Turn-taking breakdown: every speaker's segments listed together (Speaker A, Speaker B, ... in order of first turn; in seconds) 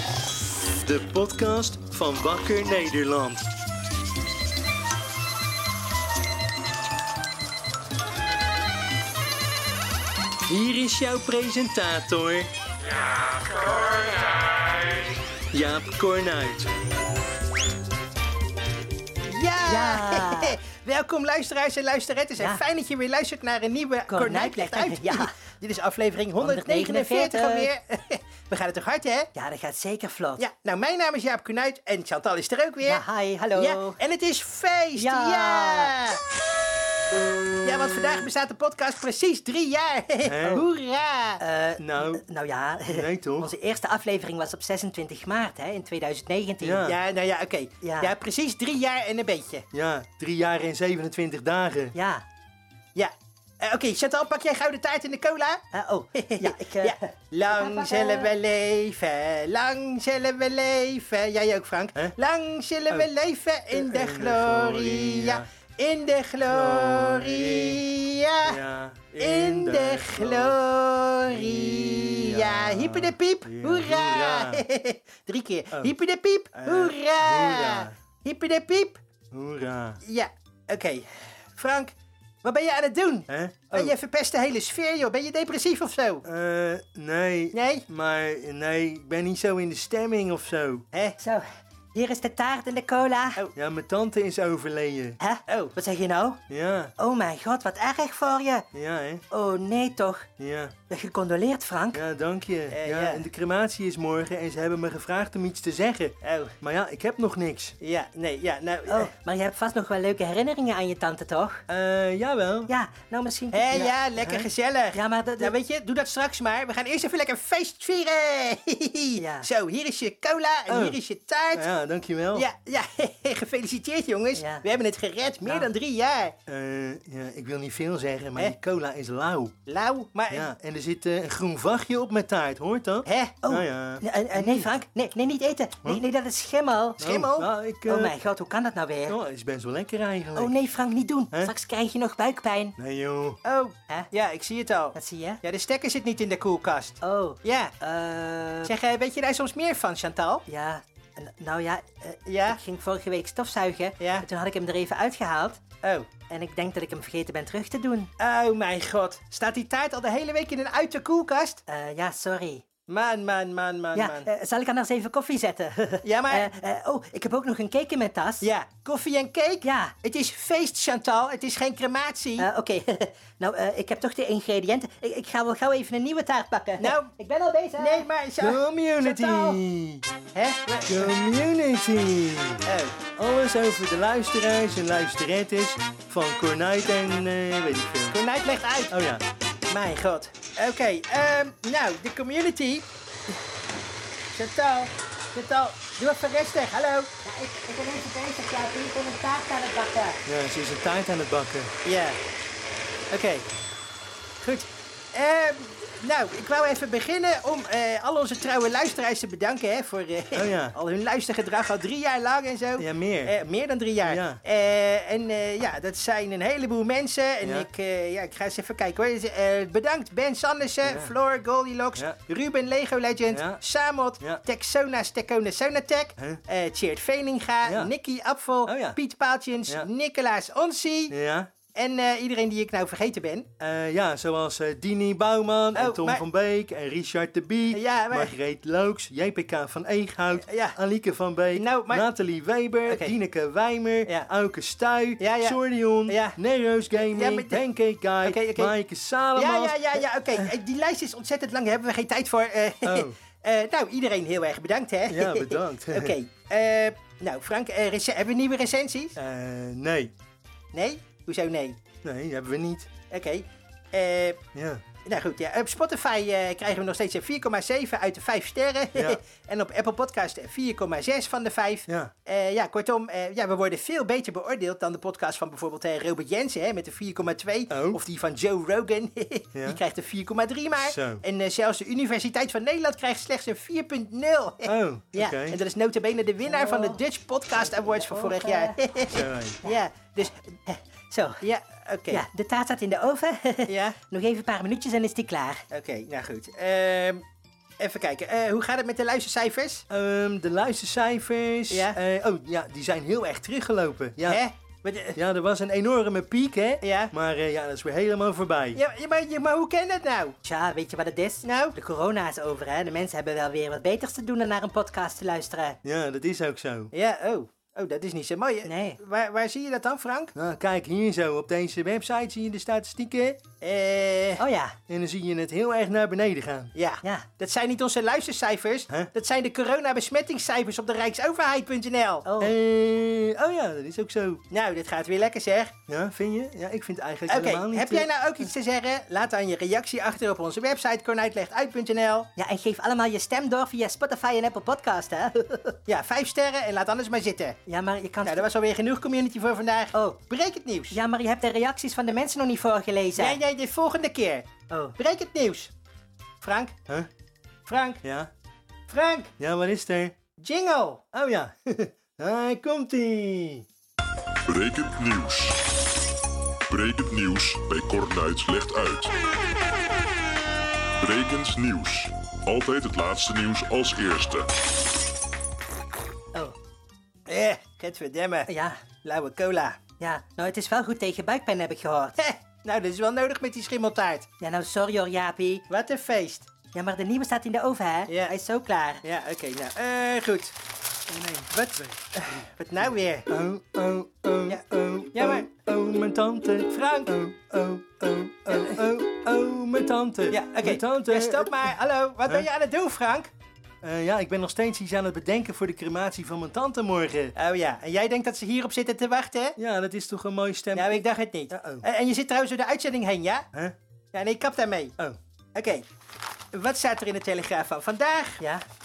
Speaker A: 0.8-3.5, 10.5-12.5, 15.5-16.7, 40.2-40.6, 41.8-42.2, 42.9-43.5, 46.6-47.0, 49.7-52.0, 63.7-65.5, 66.5-67.9, 68.4-70.6, 71.3-74.6, 76.5-78.0, 79.3-80.0, 83.3-83.9, 86.2-90.8, 93.6-95.2, 96.5-96.9, 98.7-99.2, 100.4-100.8, 101.9-107.8, 111.7-112.7, 120.7-121.0, 121.5-122.5, 126.5-129.6, 130.3-134.7, 137.0-138.1, 139.1-140.6, 142.8-143.4, 178.4-180.1, 180.9-182.6, 183.2-188.2, 188.9-189.2, 200.2-201.7, 210.3-210.8, 212.8-213.3, 214.1-214.4, 217.4-217.7, 220.8-221.1, 223.3-223.6, 227.7-227.9, 228.7-229.0, 231.1-231.5, 233.6-250.5, 252.8-253.2, 255.1-256.1, 259.1-260.1, 262.0-262.9, 264.5-264.8, 268.9-269.2, 277.7-278.0, 279.5-279.8, 280.8-281.2, 284.6-285.6, 289.1-289.6, 299.9-304.4, 305.1-308.8, 315.8-316.9, 320.3-323.4, 324.9-326.7, 332.4-334.4, 335.9-338.1, 358.0-358.3, 359.4-360.1, 361.1-363.6, 391.1-392.4, 393.3-401.7, 403.8-407.3, 409.6-411.8
Speaker B: 19.3-29.3, 30.4-33.0, 33.5-36.2, 37.6-41.4, 46.8-49.7, 53.0-55.6, 56.1-68.6, 69.2-79.0, 80.0-86.2, 87.5-87.8, 90.9-91.2, 95.5-95.8, 102.7-103.3, 106.2-106.5, 107.8-109.1, 113.5-121.7, 122.3-126.3, 129.7-130.5, 133.1-133.5, 137.0-137.5, 143.4-147.8, 148.7-150.4, 152.2-152.6, 154.0-154.3, 155.8-156.1, 158.2-161.6, 162.9-164.3, 166.0-166.5, 168.4-172.5, 176.8-177.1, 177.8-179.6, 180.3-181.2, 182.7-183.0, 188.1-188.9, 189.7-192.9, 194.3-200.2, 201.8-202.2, 203.1-203.5, 204.4-231.1, 231.7-233.5, 235.8-236.2, 237.7-238.3, 240.4-240.8, 241.6-242.0, 242.9-243.1, 245.2-246.4, 247.0-247.6, 248.2-248.8, 249.3-259.1, 260.7-261.8, 263.1-264.4, 265.0-290.4, 291.4-292.2, 293.7-294.0, 295.7-297.2, 297.8-299.8, 301.7-302.0, 304.2-305.2, 306.8-307.1, 308.8-310.4, 311.4-311.7, 316.9-320.3, 323.6-324.4, 326.7-332.3, 334.5-335.7, 337.3-342.3, 345.9-347.6, 348.2-351.0, 353.2-354.5, 355.0-355.7, 356.4-356.7, 357.7-358.0, 358.9-359.3, 360.4-361.0, 377.3-378.5, 379.0-379.8, 382.2-384.2, 385.7-386.5, 388.1-388.3, 389.0-390.5, 391.5-393.2, 395.1-395.5, 396.7-397.1, 398.5-398.8, 400.3-403.3, 407.4-409.6, 410.7-413.5, 414.1-414.9, 415.5-415.8, 416.5-418.4
Speaker C: 19.6-20.6, 22.4-22.6, 24.1-25.3, 26.4-27.7, 29.4-30.4, 32.8-34.0, 35.0-35.9, 41.4-46.9, 47.8-48.1, 51.9-52.2, 55.7-57.0, 57.5-58.3, 91.2-93.4, 95.2-96.4, 97.0-98.7, 99.3-100.3, 100.9-102.0, 108.9-111.6, 112.7-115.5, 119.2-119.5, 124.3-124.7, 125.4-125.7, 134.0-137.1, 137.9-139.2, 140.3-142.8, 144.9-145.4, 147.0-148.7, 150.5-155.6, 156.3-158.1, 161.7-162.6, 163.9-168.5, 169.6-169.9, 172.4-178.1, 286.4-287.0, 287.5-289.1, 290.7-291.4, 292.1-295.6, 310.4-315.8, 318.6-319.0, 324.4-324.8, 332.2-332.5, 342.4-345.8, 347.6-348.4, 349.9-350.2, 350.9-353.4, 354.7-354.9, 378.5-378.8, 380.0-382.2, 384.4-385.6, 386.7-389.0, 418.4-418.6
Speaker D: 364.4-365.6, 366.7-369.1, 371.0-374.5